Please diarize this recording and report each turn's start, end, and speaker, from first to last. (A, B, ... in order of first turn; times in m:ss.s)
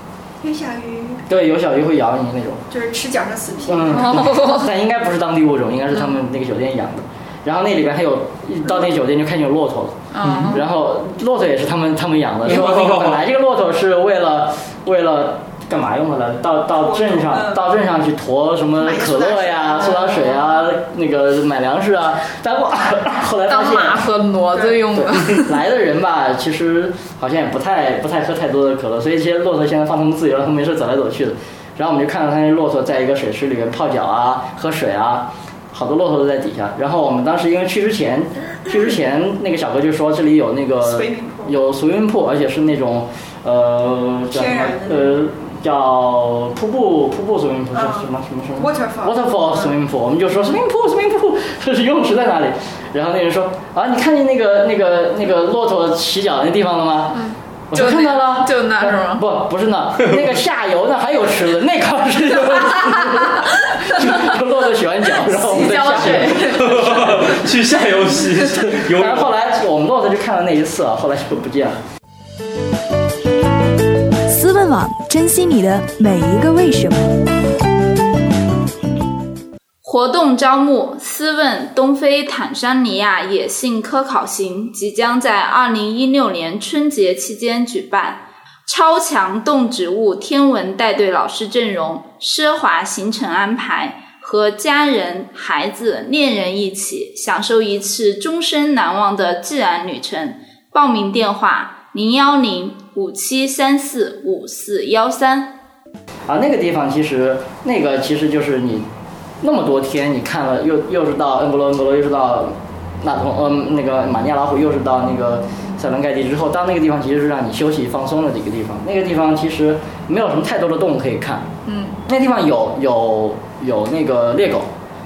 0:00.4-0:01.2 A
0:01.3-0:02.6 B
0:02.7-0:04.2 A
0:03.7-0:24.0 B
0:03.9-0:04.7 C
0:10.1-0:10.6 C
0:12.4-0:13.2 D
0:16.8-0:17.7 A
0:18.8-0:20.0 A
0:23.5-0:25.5 C
0:24.5-0:24.8 A
0:24.9-1:07.3 B
0:40.8-0:41.6 A
0:44.3-0:45.2 A
0:47.7-0:49.7 A
0:57.1-0:59.2 C
1:05.3-1:06.9 C
1:06.3-1:09.3 D
1:08.6-1:11.8 B
1:14.3-1:17.2 E
1:19.8-1:45.6 F
1:46.3-1:48.9 B
1:49.4-2:01.5 B
2:01.6-2:02.0 C
2:02.0-2:04.7 B